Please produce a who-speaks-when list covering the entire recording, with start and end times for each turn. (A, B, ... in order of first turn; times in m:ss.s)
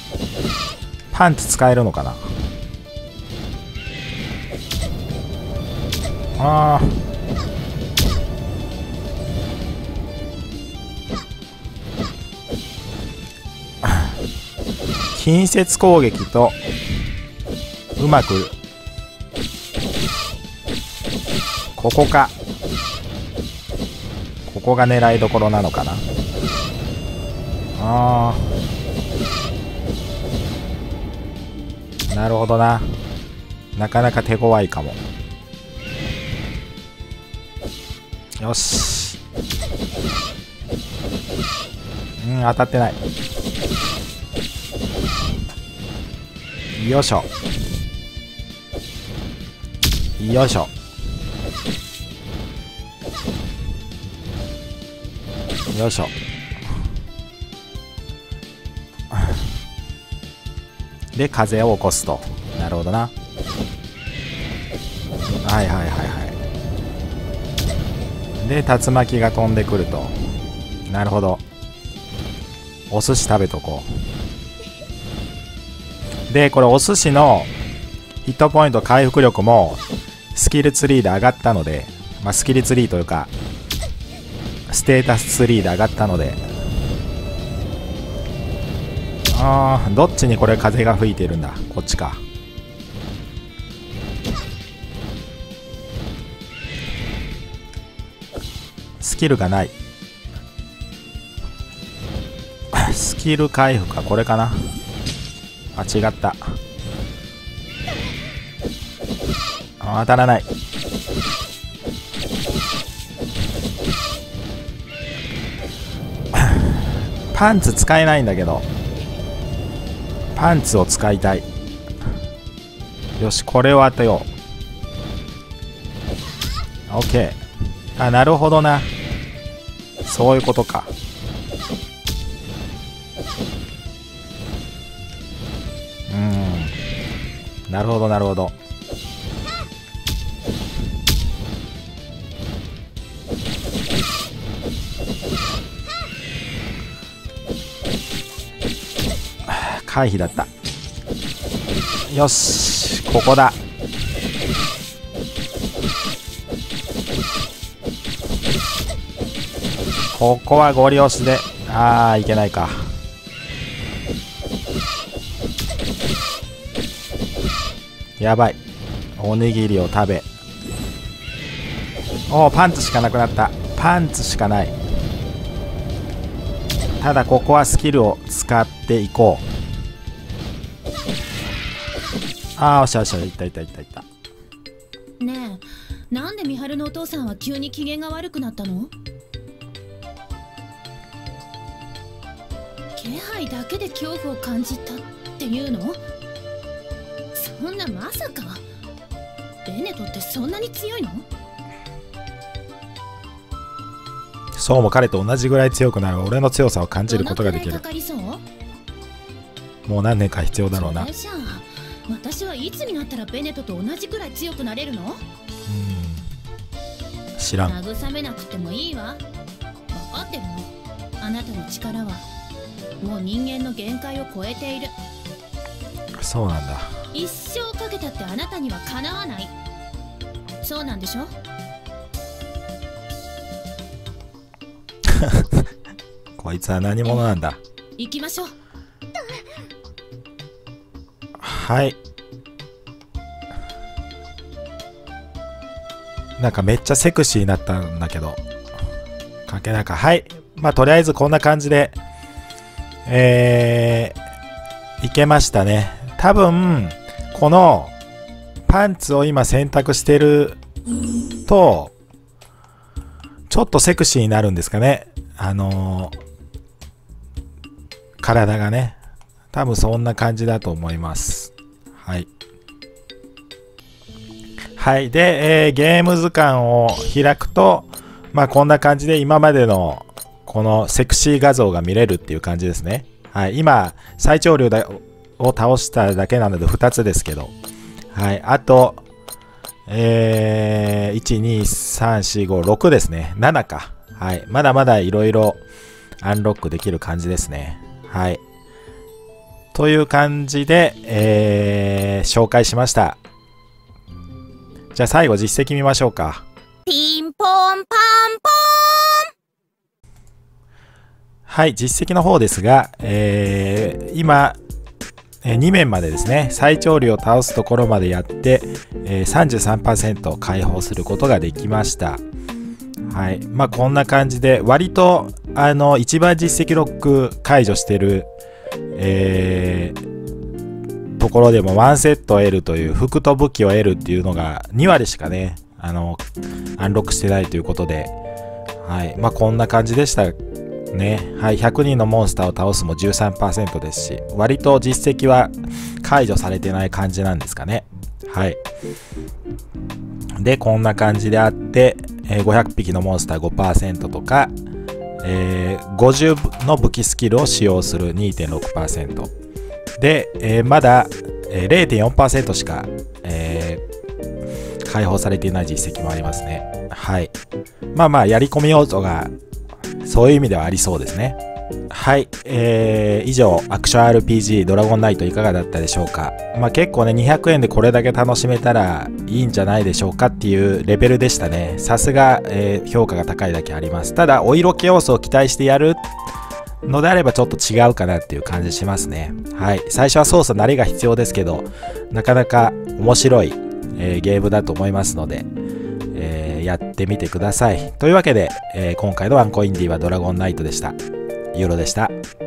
0:01.1-0:02.3 A
0:06.4-0:07.0 A
0:13.8-0:14.1 A
0:15.1-0:16.6 A
0:18.0-0:18.5 A
0:21.8-0:22.3 A
0:24.5-0:26.0 A
0:27.8-0:28.5 A
0:32.1-0:33.0 A
0:33.8-0:35.0 A
0:38.4-0:39.2 A
0:42.2-0:43.0 A
0:46.8-0:47.3 A
0:50.2-0:50.7 A
0:55.7-0:56.1 A
0:59.1-0:59.4 A
1:01.1-1:03.1 A
1:05.4-1:06.4 A
1:08.4-1:10.2 A
1:10.9-1:11.4 A
1:12.9-1:13.9 A
1:16.3-1:17.5 A
1:18.2-1:19.8 A
1:20.3-1:23.3 A
1:24.7-1:26.4 A
1:29.3-1:32.2 A
1:39.0-1:39.7 A
1:42.7-1:44.8 A
1:45.8-1:46.6 A
1:49.8-1:50.5 A
1:56.4-1:56.7 A
1:57.3-1:58.7 A
2:00.4-2:01.4 A
2:03.2-2:04.3 A
2:06.9-2:07.4 A
2:08.0-2:08.9 A
2:10.0-2:10.9 A
2:16.1-2:16.8 A
2:17.7-2:18.6 A
2:29.5-2:30.5 A
2:32.1-2:33.6 A
2:40.1-2:42.9 A
2:48.2-2:48.6 A
2:49.2-2:50.2 A
2:52.3-2:54.8 A
2:57.0-2:59.4 A
3:02.6-3:04.1 A
3:05.2-3:08.9 B
3:13.0-3:16.0 B
3:17.3-3:18.6 B
3:19.6-3:21.3 B
3:24.6-3:27.8 A
3:27.1-3:28.4 B
3:29.9-3:31.1 A
3:30.7-3:35.2 B
3:35.7-3:36.3 A
3:37.4-3:37.8 A
3:37.6-3:39.2 B
3:39.9-3:42.3 B
3:43.0-3:45.0 B
3:46.2-3:47.0 A
3:47.1-3:49.5 B
3:50.6-3:51.3 B
3:55.1-3:55.6 A
3:56.4-3:57.6 A
3:58.0-3:58.6 B
4:01.4-4:02.0 A
4:06.4-4:08.4 A
4:09.5-4:12.0 A
4:13.1-4:14.2 A
4:15.0-4:17.9 A
4:18.7-4:20.6 A
4:21.5-4:21.9 A
4:23.5-4:26.2 A
4:28.2-4:29.0 A
4:29.5-4:32.3 A
4:34.8-4:47.5 A
4:48.1-4:49.0 A
4:49.9-4:55.6 A
4:56.2-4:58.4 A
4:59.7-5:03.2 A
5:04.9-5:06.4 A
5:06.9-5:09.3 C
5:11.5-5:14.6 A
5:15.4-5:22.2 A
5:23.1-5:28.3 A
5:29.0-5:30.0 A
5:31.2-5:36.2 A
5:36.8-5:38.1 A
5:38.8-5:40.4 A
5:40.9-5:48.6 A
5:50.4-5:54.5 A
5:55.2-5:59.3 A
6:00.0-6:03.8 A
6:04.8-6:07.3 A
6:07.9-6:09.3 A
6:10.0-6:11.4 A
6:11.9-6:26.0 A
6:26.8-6:35.5 A
6:36.1-6:41.0 A
6:41.5-6:42.1 A